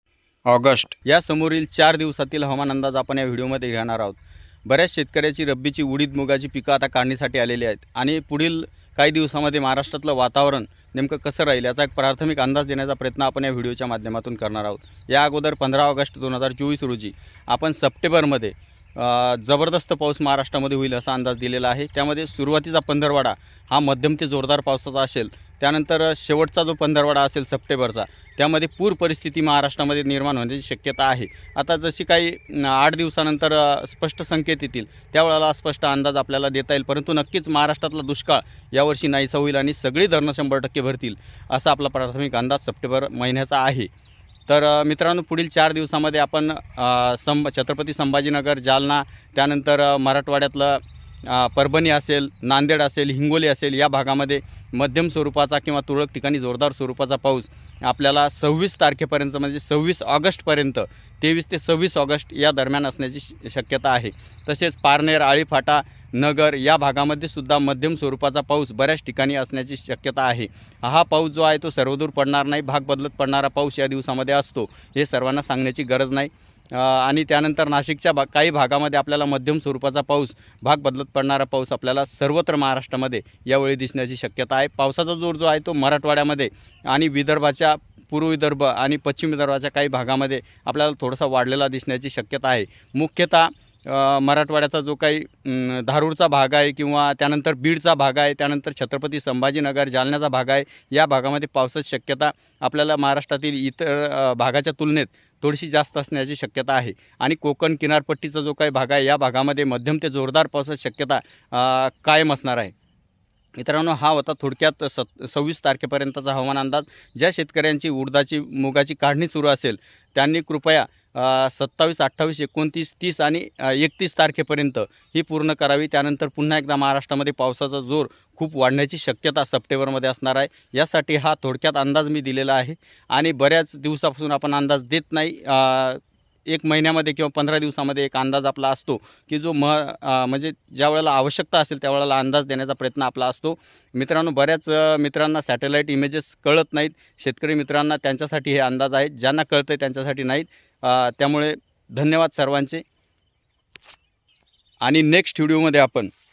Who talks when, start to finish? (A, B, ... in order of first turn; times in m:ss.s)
0:00.5-0:43.9 A
0:44.5-1:52.7 A
1:53.6-2:32.8 A
2:34.8-2:36.1 A